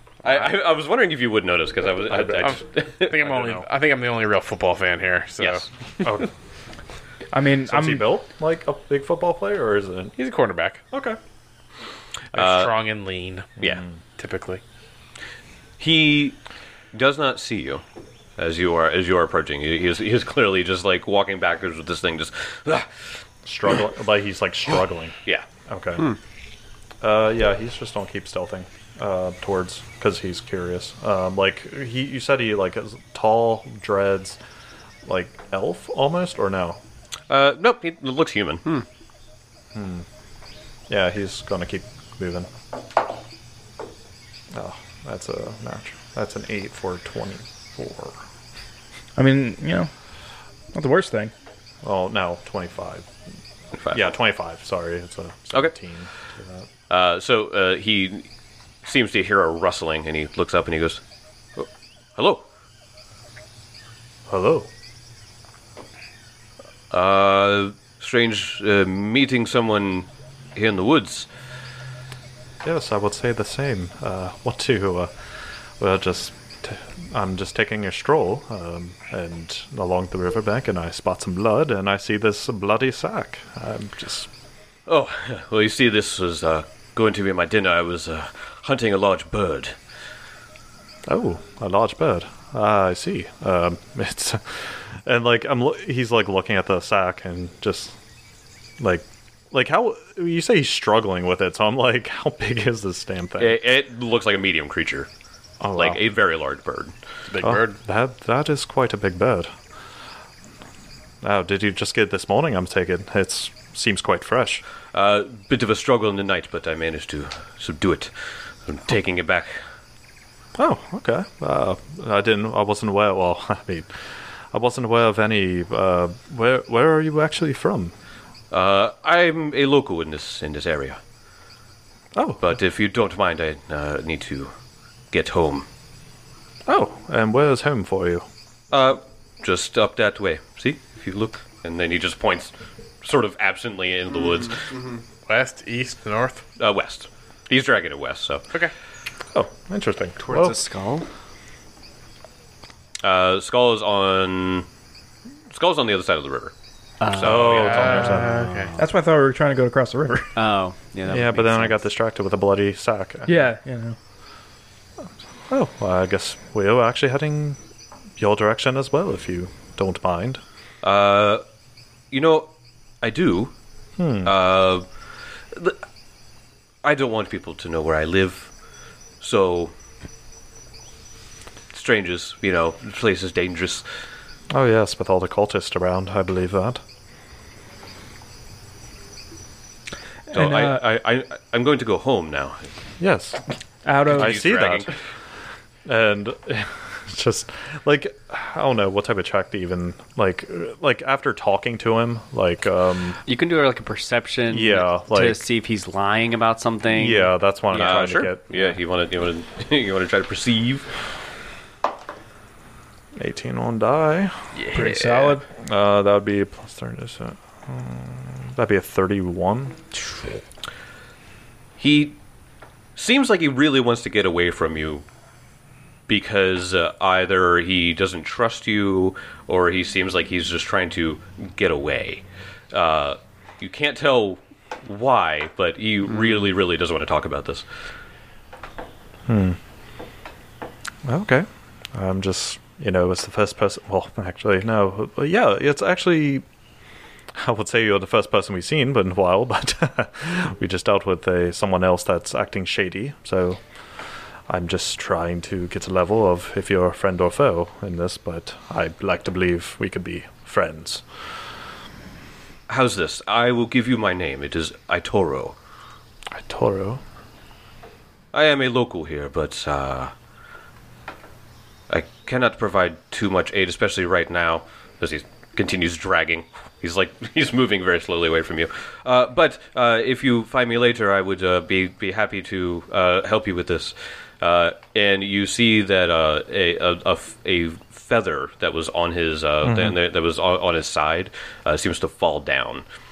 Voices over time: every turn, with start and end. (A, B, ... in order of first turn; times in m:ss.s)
0:00.2-0:03.1 A
0:02.1-0:02.6 B
0:02.4-0:06.1 C
0:03.2-0:03.6 B
0:06.0-0:06.3 B
0:07.3-0:08.1 D
0:07.6-0:10.2 B
0:10.2-0:10.8 C
0:10.9-0:11.2 B
0:12.3-0:12.7 A
0:12.3-0:13.5 C
0:13.6-0:14.0 B
0:14.2-0:14.6 C
0:15.8-0:16.4 A
0:16.9-0:17.8 A
0:18.4-0:22.9 A
0:23.4-0:26.2 B
0:27.0-0:34.4 B
0:35.0-0:36.8 B
0:37.3-0:38.6 A
0:39.7-0:40.0 B
0:40.9-0:42.5 B
0:44.5-0:48.2 B
0:49.2-0:49.9 D
0:50.7-0:51.3 D
0:51.8-0:53.1 B
0:53.8-0:56.7 B
0:56.9-0:58.2 A
0:58.8-1:01.0 A
1:01.6-1:02.4 A
1:04.3-1:04.7 B
1:06.9-1:11.3 A
1:12.6-1:15.1 B
1:15.8-1:24.3 B
1:24.8-1:29.8 A
1:31.0-1:38.0 B
1:38.8-1:43.6 B
1:43.4-1:45.1 A
1:45.6-1:46.0 B
1:45.7-1:46.9 A
1:47.3-1:47.8 C
1:47.4-1:49.5 B
1:51.2-1:54.6 B
1:54.9-1:58.1 A
1:58.6-1:59.6 A
2:00.6-2:07.9 B
2:08.5-2:11.0 A
2:12.1-2:12.5 B
2:12.4-2:14.5 A
2:15.1-2:15.7 A
2:16.6-2:18.2 B
2:18.7-2:22.5 A
2:23.0-2:24.8 A
2:25.3-2:26.4 C
2:26.6-2:28.4 A
2:29.3-2:30.6 B
2:30.2-2:31.0 E
2:33.0-2:34.6 A
2:35.5-2:36.5 A
2:37.0-2:38.7 E
2:37.1-2:38.2 A
2:37.2-2:38.5 B
2:37.5-2:38.7 C
2:38.8-2:40.3 D
2:40.4-2:41.8 E
2:41.1-2:43.4 B
2:43.2-2:44.0 D
2:45.5-2:47.6 B
2:48.2-2:50.4 B
2:50.8-2:51.4 A
2:52.1-2:52.5 A
2:53.0-2:53.5 A
2:54.0-2:54.3 B
2:54.2-2:54.8 A
2:55.5-2:55.8 A
2:56.8-2:58.5 A
2:59.2-2:59.7 A
3:01.7-3:03.8 A
3:04.5-3:06.8 B
3:10.3-3:10.8 D
3:10.3-3:12.7 A
3:13.0-3:13.4 B
3:13.8-3:14.4 D
3:14.0-3:14.9 B
3:14.1-3:14.9 A
3:15.8-3:23.2 B
3:23.2-3:27.3 E
3:24.5-3:25.4 B
3:26.9-3:28.7 B
3:27.7-3:30.8 A
3:33.2-3:34.3 B
3:34.7-3:35.4 D
3:35.6-3:39.8 B
3:41.8-3:42.2 A
3:43.0-3:45.0 A
3:46.1-3:57.6 A
3:59.3-3:59.6 B
4:01.0-4:06.4 B
4:07.3-4:13.6 B
4:14.5-4:21.0 B
4:22.7-4:25.5 A
4:26.3-4:27.0 B
4:28.3-4:30.1 A
4:31.9-4:52.8 A
4:49.6-4:50.0 B